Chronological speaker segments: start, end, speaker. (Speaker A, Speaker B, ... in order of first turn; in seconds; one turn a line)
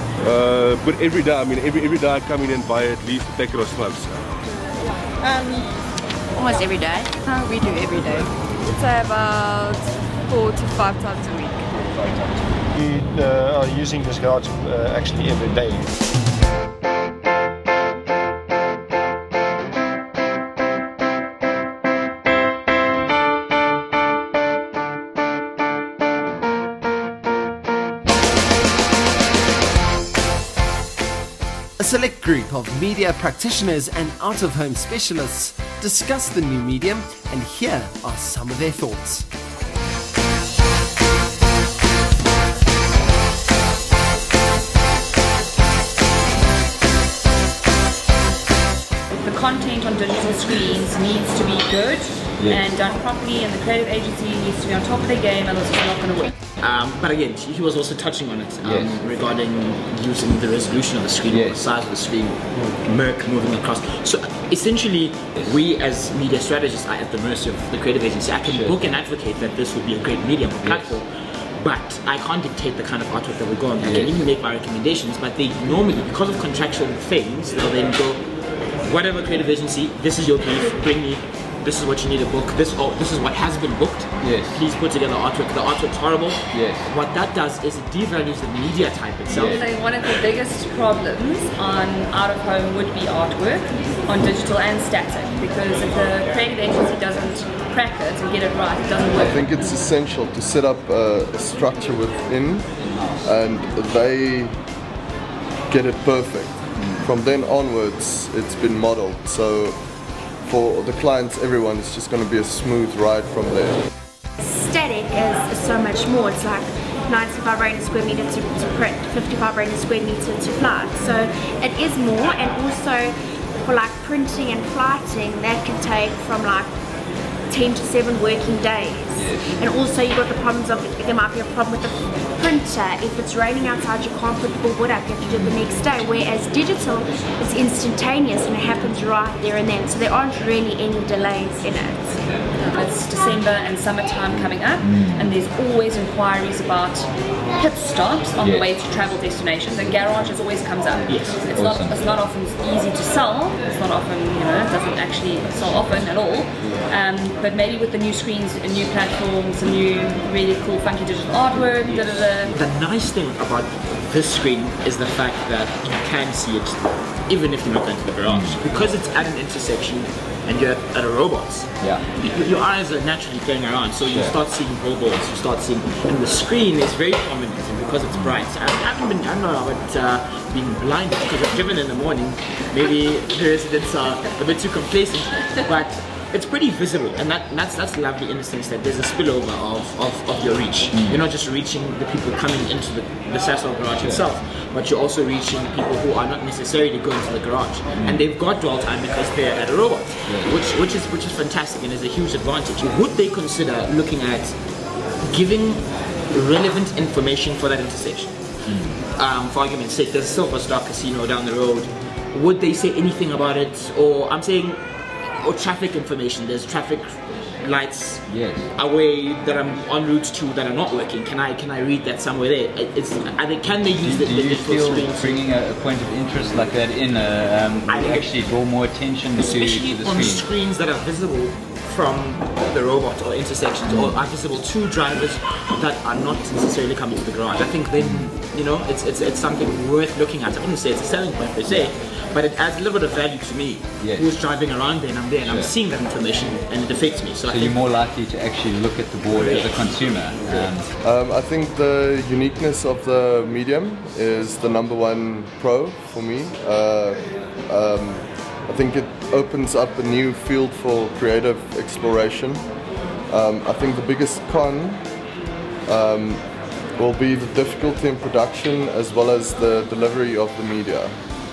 Speaker A: 0.2-4.2
Speaker B: 8.7-11.6
Speaker C: 12.8-15.9
Speaker D: 31.8-39.3
Speaker E: 49.1-56.3
Speaker F: 52.4-52.6
Speaker G: 56.6-78.2
Speaker F: 58.6-59.0
Speaker F: 61.3-61.6
Speaker F: 68.5-68.8
Speaker F: 73.8-74.1
Speaker G: 78.8-89.6
Speaker F: 84.2-84.6
Speaker F: 86.5-86.9
Speaker F: 89.3-89.6
Speaker E: 89.5-99.8
Speaker H: 99.2-104.6
Speaker H: 105.7-109.8
Speaker F: 106.8-107.0
Speaker H: 110.4-113.8
Speaker I: 114.4-123.1
Speaker I: 123.6-126.8
Speaker I: 127.5-142.3
Speaker F: 129.1-129.4
Speaker F: 142.2-142.5
Speaker E: 142.7-162.5
Speaker F: 144.8-145.3
Speaker F: 148.4-148.7
Speaker G: 151.1-151.7
Speaker F: 151.6-152.1
Speaker F: 161.8-162.2
Speaker G: 161.9-204.6
Speaker F: 168.3-168.6
Speaker F: 190.9-191.2
Speaker F: 197.9-198.2
Speaker G: 205.2-208.4
Speaker F: 208.7-209.0
Speaker G: 209.0-214.8
Speaker G: 215.4-225.5
Speaker F: 218.3-218.7
Speaker F: 224.0-230.4
Speaker G: 227.8-228.5
Speaker G: 229.4-247.9
Speaker F: 238.0-238.3
Speaker F: 244.0-244.3
Speaker F: 245.4-245.7
Speaker F: 247.5-250.9
Speaker G: 249.4-249.7
Speaker H: 250.4-265.2
Speaker H: 265.9-271.1